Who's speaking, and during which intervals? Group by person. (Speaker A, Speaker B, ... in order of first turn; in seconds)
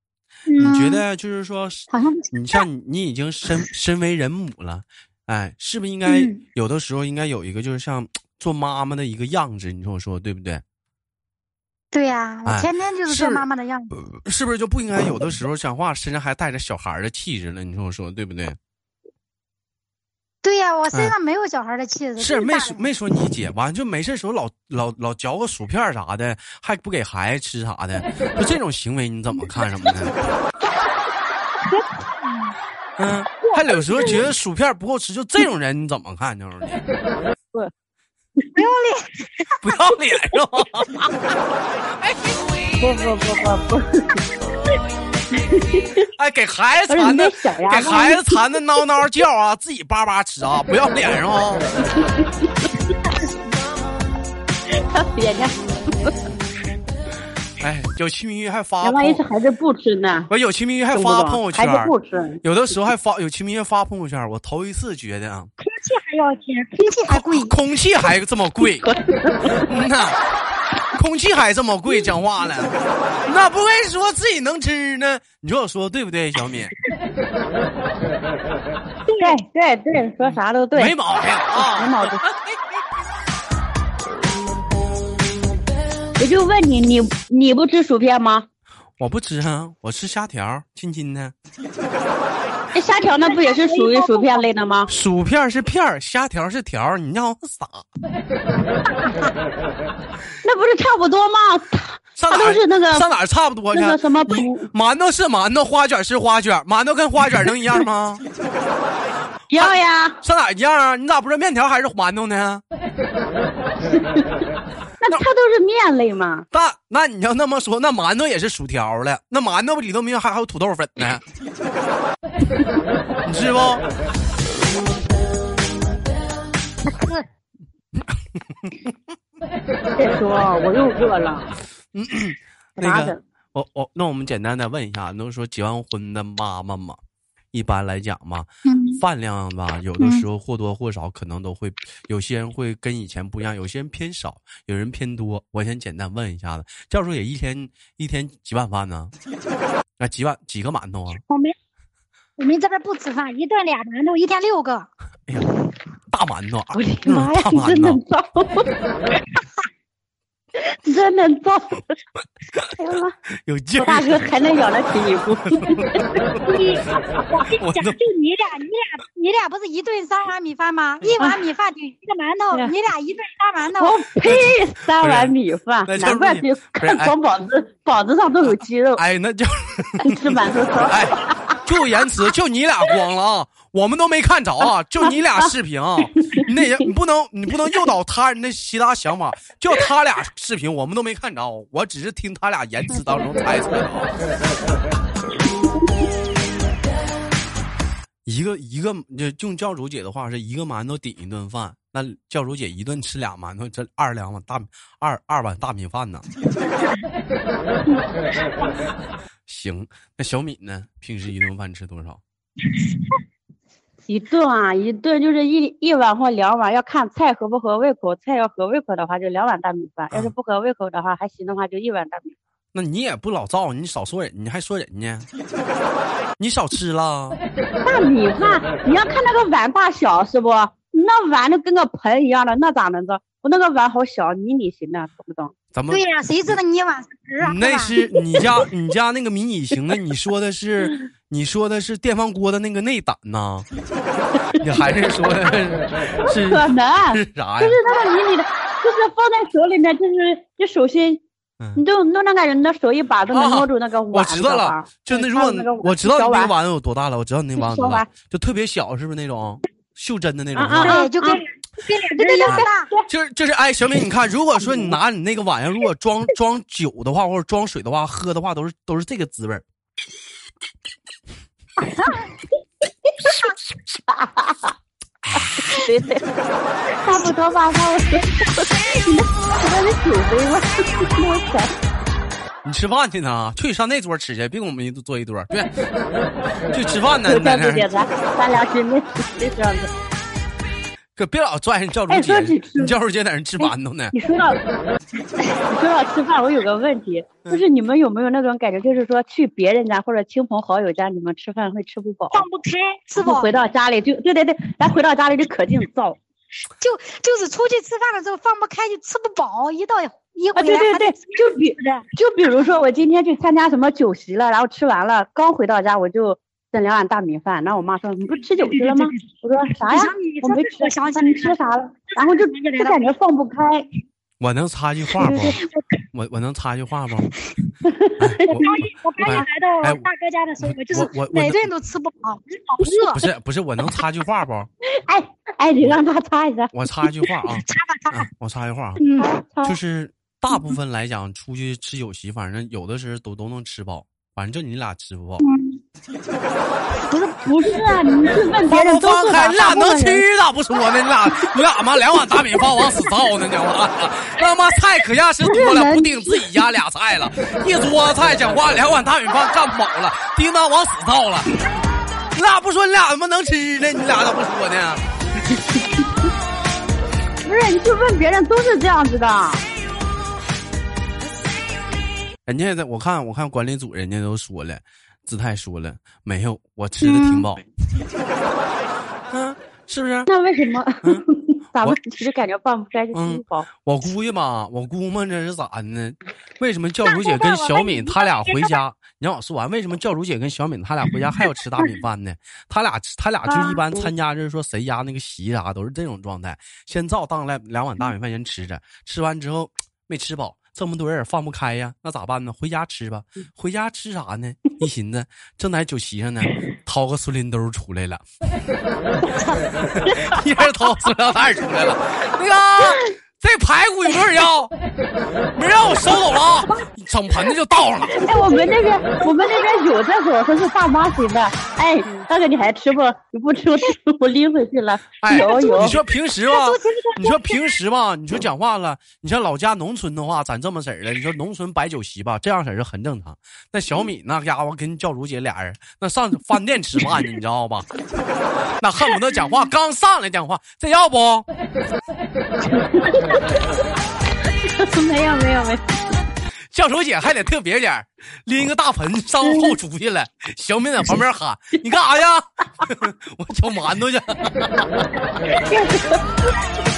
Speaker A: 0.5-1.0, 1.9-2.6, 6.1-6.4, 11.9-13.9, 20.4-22.8, 31.6-32.5, 33.5-34.0, 38.5-39.6, 65.6-67.5, 79.1-79.4, 93.2-94.4, 126.9-127.2, 138.6-139.0, 140.0-140.2, 151.3-151.5, 152.4-154.9, 166.4-174.0, 235.9-238.0, 260.8-262.9, 302.3-303.5, 306.8-312.0, 318.6-319.2, 319.9-321.6, 322.1-323.0, 325.6-326.0, 328.5-333.2, 337.6-338.3, 339.0-339.4, 345.4-345.8, 355.5-356.1, 377.0-377.5, 387.0-388.8, 418.2-418.7, 419.2-419.6, 425.3-427.8
Speaker B: 0.6-10.6, 12.4-18.6, 22.2-30.1, 33.0-36.8, 39.6-41.1, 42.0-42.3, 46.2-51.7, 57.6-59.2, 60.3-65.5, 67.1-68.8, 69.6-70.2, 70.9-72.7, 73.2-76.7, 80.7-82.6, 89.0-91.3, 94.9-97.9, 102.2-108.2, 109.5-112.6, 116.5-121.2, 123.2-123.8, 128.0-128.9, 131.9-137.0, 137.5-149.1, 150.0-151.2, 156.1-158.0, 163.4-164.2, 165.5-166.4, 167.6-168.0, 174.2-175.3, 175.8-177.1, 179.0-194.1, 198.2-206.2, 209.5-212.2, 222.7-225.3, 226.4-227.4, 235.7-236.0, 237.4-243.7, 244.5-247.8, 253.3-261.0, 262.5-269.6, 275.2-275.6, 282.6-285.7, 286.6-287.9, 291.1-294.1, 324.4-325.6, 326.1-327.3, 328.2-330.0, 330.6-331.7, 332.8-334.7, 336.7-339.0, 339.6-345.4, 348.7-361.5, 362.3-365.0, 372.4-377.6, 379.3-380.3, 383.1-408.2, 409.8-414.7, 415.6-418.2, 425.2-437.9, 438.8-441.4, 446.7-455.0
Speaker C: 42.8-44.2, 45.3-46.0, 46.9-48.4, 52.0-52.5, 54.8-56.1, 58.8-60.3, 60.9-62.4, 68.8-69.6, 79.2-80.9, 81.5-82.2, 86.2-88.5, 92.7-94.9, 100.4-103.1, 103.7-104.7, 109.5-110.2, 113.9-114.3, 115.0-116.4, 130.0-131.5, 132.8-133.2, 156.7-158.7, 160.7-161.9, 162.7-163.1, 163.8-166.0, 173.8-179.0, 180.0-181.6, 186.1-186.9, 214.1-222.3, 227.8-235.5, 246.2-251.2, 251.8-256.5, 257.6-258.1, 260.5-261.4, 262.2-263.1, 264.6-264.9, 271.8-272.4, 273.1-273.5, 274.1-274.7, 275.3-276.2, 277.0-281.7, 287.2-289.9, 292.1-292.9, 293.6-294.6, 295.7-302.4, 303.2-306.2, 310.5-323.9, 325.2-325.6, 327.8-328.7, 335.0-337.1, 339.2-339.8, 347.1-350.2, 355.5-355.9, 367.4-369.6, 380.3-383.7, 393.6-394.0, 410.0-410.4, 418.1-425.9, 442.7-443.4, 444.6-445.8, 455.5-456.2